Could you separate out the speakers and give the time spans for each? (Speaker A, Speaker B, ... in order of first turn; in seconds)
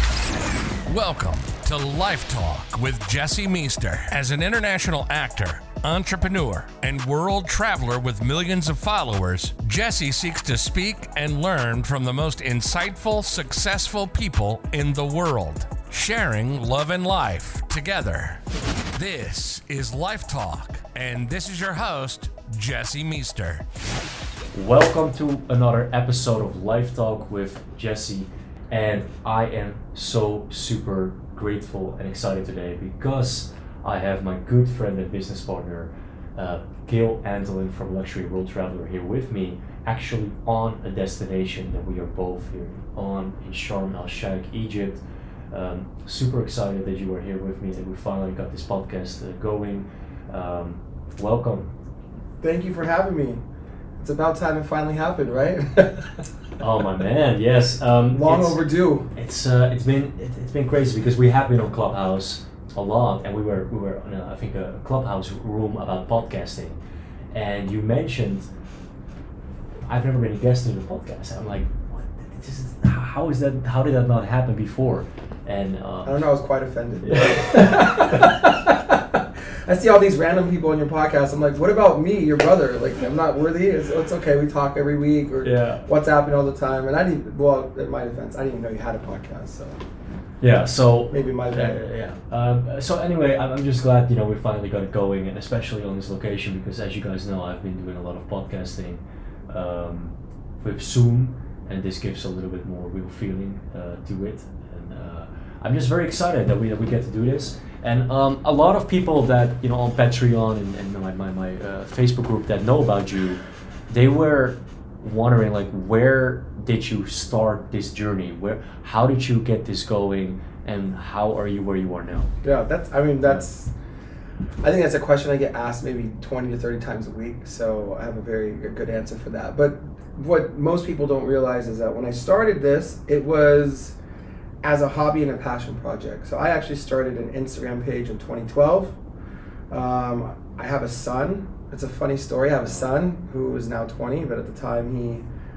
Speaker A: 0.9-23.6
Speaker B: 24.5-51.7, 56.6-66.8, 67.3-68.5, 69.9-76.2, 77.0-78.3, 85.4-85.9, 90.4-122.3
Speaker C: 52.4-53.4, 54.0-56.3, 58.1-59.1, 76.0-89.8, 91.1-91.8, 122.4-123.7, 124.6-134.0, 134.6-139.0, 139.7-145.2